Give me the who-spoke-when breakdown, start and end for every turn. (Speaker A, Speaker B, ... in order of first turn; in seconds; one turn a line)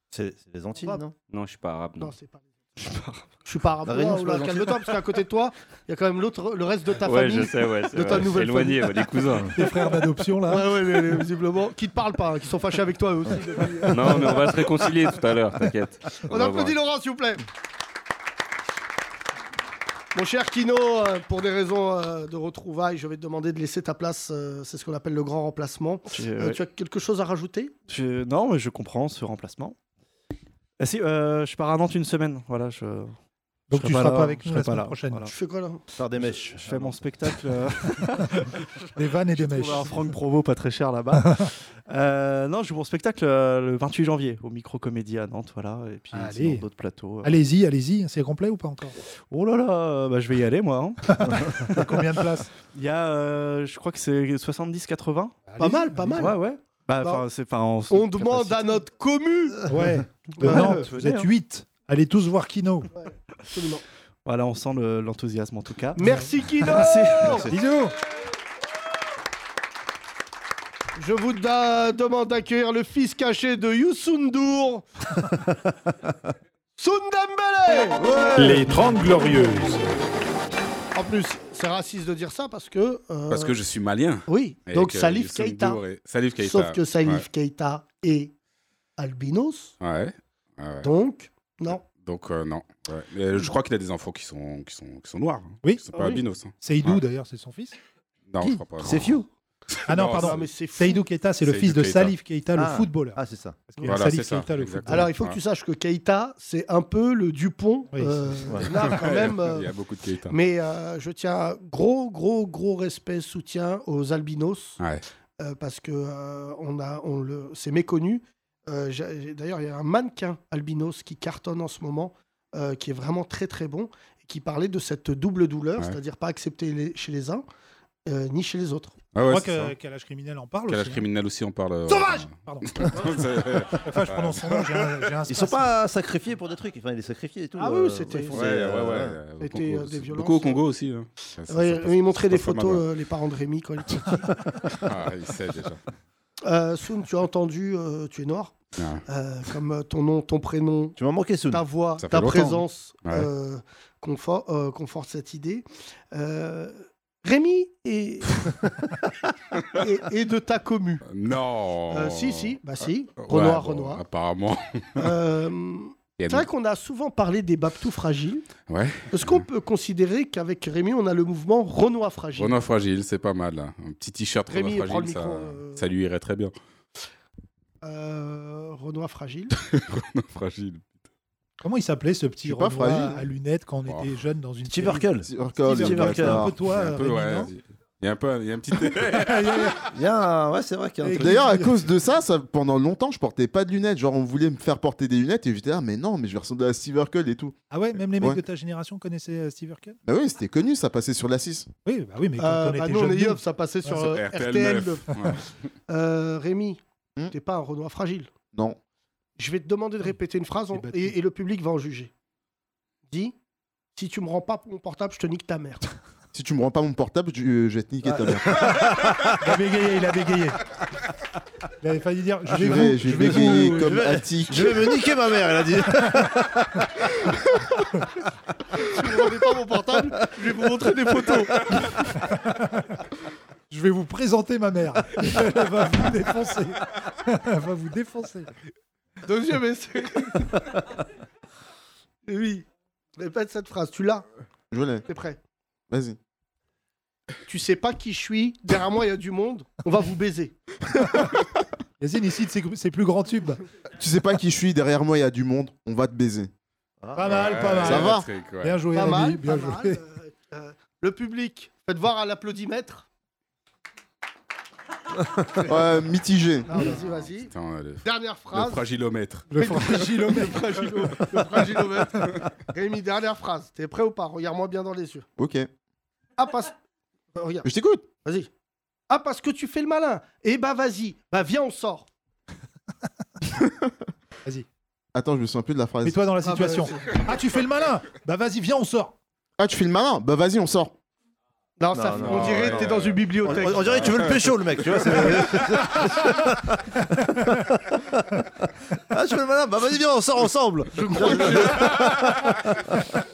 Speaker A: 0.1-1.1
Speaker B: 0.7-1.0
Speaker C: 1.3-2.1
Speaker B: 2.0-2.4
Speaker D: 2.8-3.2
Speaker B: 3.4-9.0
Speaker A: 3.8-4.7
Speaker C: 7.0-9.6
Speaker E: 9.5-11.2
Speaker B: 10.5-14.6
Speaker C: 13.9-16.8
Speaker B: 16.2-17.4
Speaker B: 20.1-27.7
Speaker D: 26.1-26.6
Speaker D: 27.9-29.8
Speaker D: 30.8-33.1
Speaker E: 33.7-35.3
Speaker D: 33.7-35.3
Speaker B: 35.3-35.8
Speaker A: 36.0-37.0
Speaker D: 36.2-38.5
Speaker E: 38.1-40.1
Speaker D: 39.3-47.4
Speaker E: 46.1-46.6
Speaker E: 47.2-48.9
Speaker D: 49.3-51.9
Speaker E: 51.2-52.5
Speaker D: 52.7-55.4
Speaker E: 55.5-56.3
Speaker B: 55.6-56.3
Speaker D: 56.2-58.8
Speaker B: 57.9-59.6
Speaker E: 59.7-62.9
Speaker B: 60.4-60.8
Speaker D: 60.4-61.3
Speaker B: 62.9-63.8
Speaker D: 64.2-66.0
Speaker B: 66.0-67.5
Speaker E: 66.0-66.3
Speaker D: 66.6-67.5
Speaker E: 67.5-67.9
Speaker B: 71.0-74.9
Speaker B: 76.8-78.1
Speaker A: 78.0-78.6
Speaker E: 78.4-79.8
Speaker B: 80.9-83.5
Speaker F: 83.3-87.2
Speaker B: 84.3-85.8
Speaker B: 86.4-88.3
Speaker B: 89.0-89.7
Speaker F: 89.8-90.9
Speaker B: 90.8-91.8
Speaker F: 91.9-97.0
Speaker B: 95.9-96.2
Speaker E: 96.6-97.8
Speaker F: 98.3-99.2
Speaker A: 98.8-99.2
Speaker F: 99.8-100.4
Speaker E: 99.9-105.1
Speaker B: 100.0-101.0
Speaker F: 101.4-102.1
Speaker A: 102.5-103.7
Speaker F: 103.8-105.4
Speaker B: 104.9-109.7
Speaker E: 107.9-108.5
Speaker F: 108.7-110.3
Speaker B: 110.3-114.8
Speaker B: 115.4-127.4
Speaker B: 128.1-128.9
Speaker F: 129.1-129.7
Speaker E: 129.3-131.0
Speaker F: 130.7-134.9
Speaker E: 131.9-133.2
Speaker E: 133.7-135.7
Speaker A: 135.3-139.2
Speaker B: 137.6-138.4
Speaker F: 138.3-142.8
Speaker B: 139.4-140.6
Speaker B: 141.5-144.8
Speaker F: 144.8-145.8
Speaker B: 146.4-151.0
Speaker F: 148.8-149.0
Speaker A: 150.9-151.6
Speaker B: 151.5-158.4
Speaker F: 152.0-153.3
Speaker B: 159.7-161.0
Speaker F: 161.1-162.6
Speaker B: 161.9-164.0
Speaker F: 163.2-165.1
Speaker B: 165.0-168.5
Speaker F: 166.2-166.5
Speaker F: 168.7-169.4
Speaker B: 169.1-172.6
Speaker F: 172.3-176.5
Speaker B: 174.5-175.8
Speaker B: 177.8-179.5
Speaker F: 179.6-181.0
Speaker E: 181.6-187.5
Speaker G: 182.4-183.2
Speaker A: 184.7-186.4
Speaker G: 185.2-186.5
Speaker F: 186.1-189.8
Speaker E: 189.2-189.8
Speaker A: 189.9-191.4
Speaker E: 191.0-191.8
Speaker G: 191.2-197.5
Speaker E: 197.7-200.0
Speaker G: 200.1-201.7
Speaker E: 201.8-204.1
Speaker B: 202.4-208.3
Speaker F: 203.9-205.4
Speaker B: 209.4-212.1
Speaker E: 210.7-211.2
Speaker B: 213.1-213.3
Speaker B: 213.9-215.8
Speaker G: 216.3-218.8
Speaker A: 218.1-219.2
Speaker E: 219.4-220.6
Speaker E: 221.8-224.1
Speaker A: 222.5-226.8
Speaker G: 222.6-224.8
Speaker B: 228.8-231.6
Speaker E: 232.2-233.0
Speaker E: 233.7-238.5
Speaker B: 239.2-240.7
Speaker B: 242.3-242.7
Speaker B: 243.2-244.2
Speaker G: 244.7-245.0
Speaker B: 245.1-245.4
Speaker G: 245.9-246.2
Speaker B: 247.4-250.5
Speaker E: 252.0-253.6
Speaker G: 254.0-256.5
Speaker A: 257.0-257.6
Speaker E: 257.1-260.0
Speaker F: 257.3-258.8
Speaker G: 257.7-258.3
Speaker B: 258.9-263.1
Speaker G: 265.6-266.8
Speaker B: 266.7-267.5
Speaker F: 266.8-269.5
Speaker B: 268.0-268.9
Speaker E: 269.5-270.8
Speaker B: 269.5-275.2
Speaker G: 275.4-275.7
Speaker B: 276.4-276.7
Speaker B: 277.4-277.7
Speaker G: 277.6-278.1
Speaker B: 278.2-278.5
Speaker B: 279.1-282.1
Speaker G: 283.5-283.8
Speaker G: 285.1-286.2
Speaker E: 286.0-289.1
Speaker B: 286.4-287.2
Speaker G: 289.6-290.9
Speaker B: 291.8-294.1
Speaker A: 291.9-298.2
Speaker F: 292.2-294.5
Speaker A: 299.1-303.1
Speaker B: 300.9-302.0